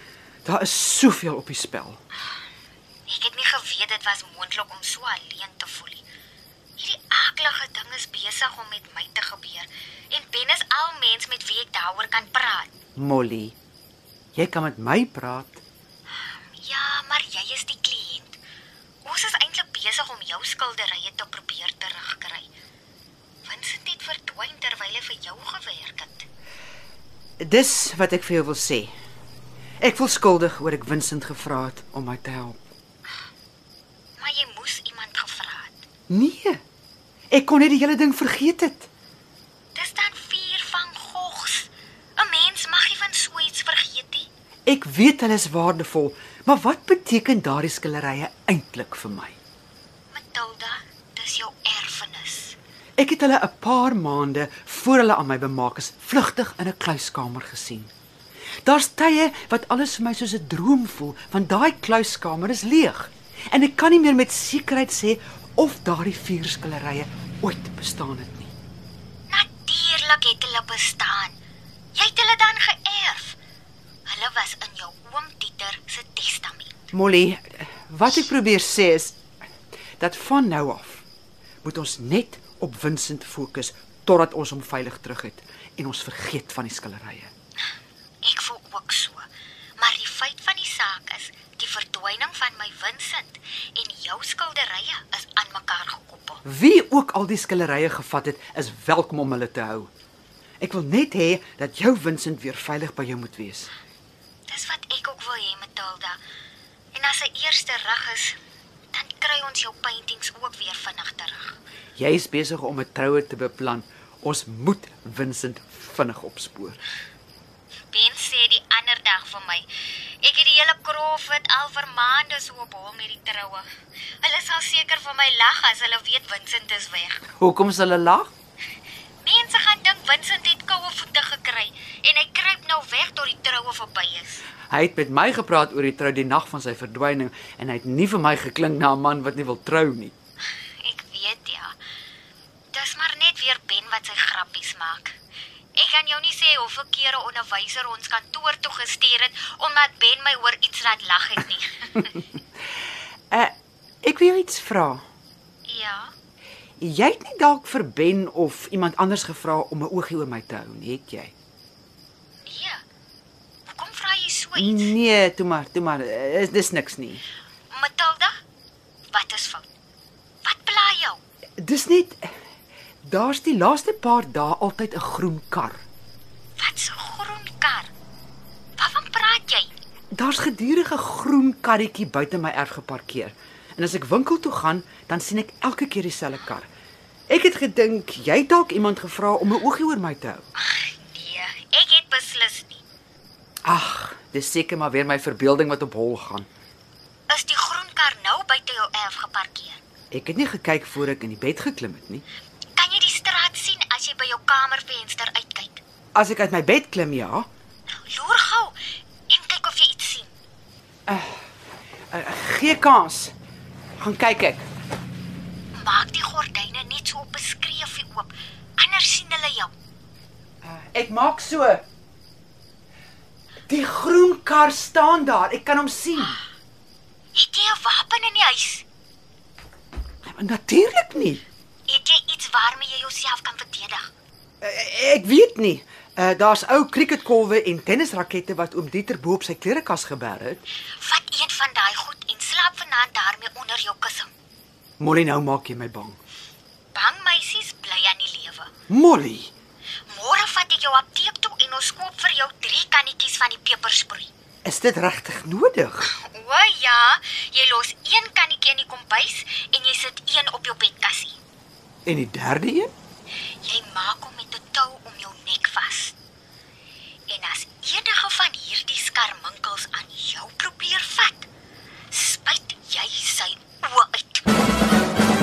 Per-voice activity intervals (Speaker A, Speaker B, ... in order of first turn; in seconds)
Speaker A: 0.5-2.0, 13.0-13.6, 14.3-15.6, 27.4-28.9, 29.8-32.6, 36.1-36.6, 37.3-38.9, 44.7-49.4, 53.0-57.9, 58.6-68.5, 76.9-79.2, 80.0-81.0, 81.6-87.3, 96.5-99.9, 100.6-103.7, 112.0-116.8, 127.4-128.3, 134.7-140.1, 153.3-155.0, 156.8-161.3, 164.6-167.2, 171.6-172.3, 173.0-175.8, 180.1-186.7, 187.3-190.4, 193.6-196.5, 200.1-202.2, 206.1-207.5, 211.1-211.4, 212.1-213.3, 214.0-214.7, 220.6-221.8, 223.7-226.4, 230.2-231.4, 234.6-240.6, 245.0-246.2, 248.9-249.5, 254.6-256.1, 262.1-262.9
Speaker B: 3.1-6.0, 6.8-12.8, 16.1-18.4, 19.0-22.5, 23.4-26.3, 34.2-35.9, 39.8-44.3, 50.1-52.6, 69.3-71.4, 71.9-73.4, 74.1-76.9, 88.2-89.3, 89.8-96.4, 104.5-106.2, 106.9-108.4, 108.9-111.6, 117.9-119.7, 120.2-123.7, 124.2-127.2, 129.2-134.4, 140.8-141.8, 142.7-145.1, 145.8-152.2, 155.7-156.1, 162.4-162.8, 163.7-164.9, 167.7-168.4, 169.1-169.7, 170.4-171.2, 176.6-177.9, 178.8-179.7, 190.6-192.8, 197.3-199.8, 202.8-205.8, 207.9-208.8, 209.3-210.3, 215.8-219.7, 227.3-228.8, 231.9-234.1, 241.0-244.3, 246.9-248.7, 250.1-254.3, 256.1-261.4, 263.6-266.2, 267.3-271.5, 272.1-274.4